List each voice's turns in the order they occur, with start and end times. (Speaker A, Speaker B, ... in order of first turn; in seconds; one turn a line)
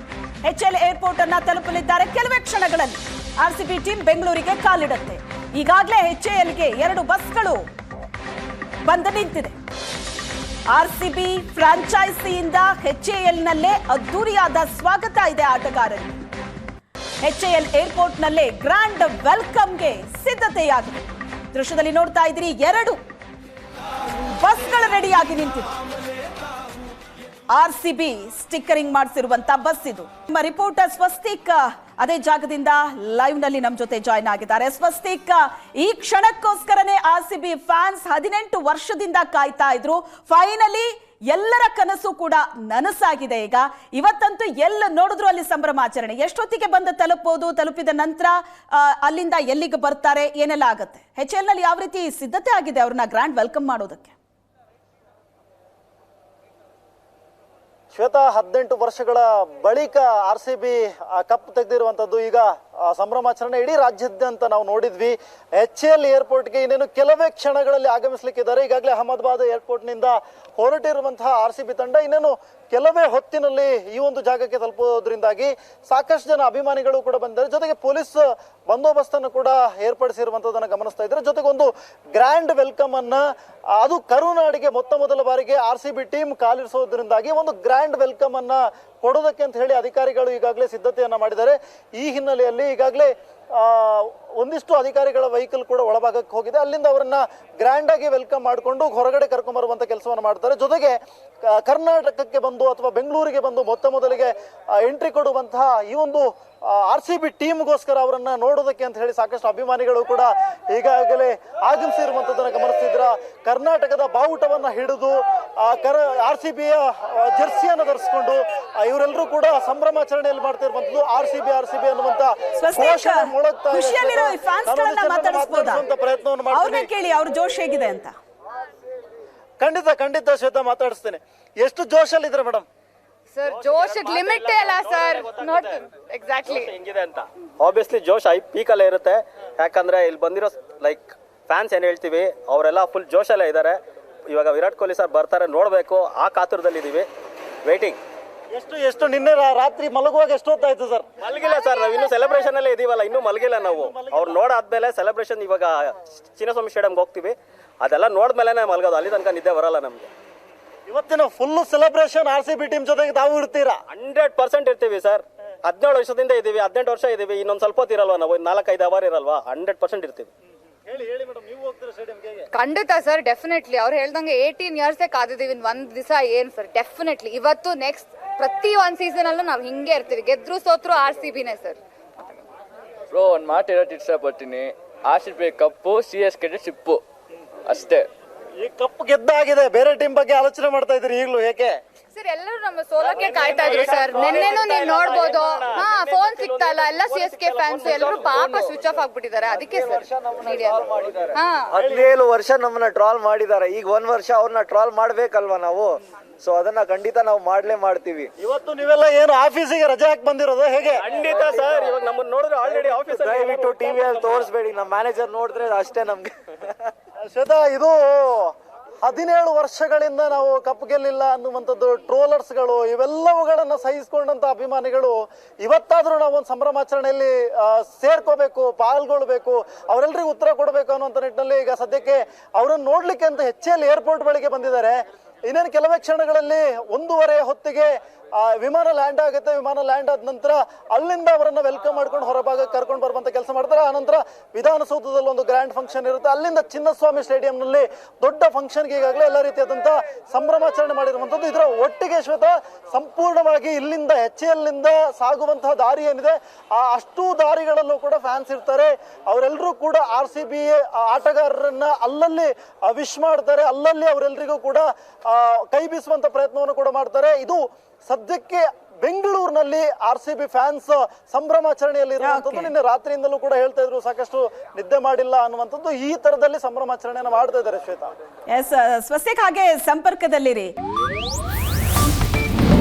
Speaker A: 0.4-7.6
Speaker A: 8.8-9.5
Speaker A: 10.7-16.1
Speaker A: 17.2-23.0
Speaker A: 24.3-25.7
Speaker A: 27.5-54.1
Speaker B: 57.9-126.9
Speaker A: 122.6-125.8
Speaker A: 126.5-128.1
Speaker B: 129.6-132.7
Speaker C: 133.3-136.7
Speaker D: 133.5-135.8
Speaker D: 136.4-147.1
Speaker D: 147.7-148.0
Speaker B: 148.5-151.1
Speaker D: 151.2-160.1
Speaker C: 151.8-152.1
Speaker B: 153.6-154.4
Speaker B: 160.9-163.8
Speaker D: 163.9-170.3
Speaker B: 170.9-172.5
Speaker C: 172.5-182.4
Speaker E: 183.1-187.0
Speaker E: 187.7-188.1
Speaker B: 188.6-191.8
Speaker C: 192.1-201.7
Speaker D: 193.2-198.8
Speaker F: 199.7-208.3
Speaker B: 208.4-211.0
Speaker D: 211.0-214.5
Speaker F: 213.1-216.9
Speaker B: 217.2-278.1
Speaker A: 272.2-272.7
Speaker A: 278.5-280.7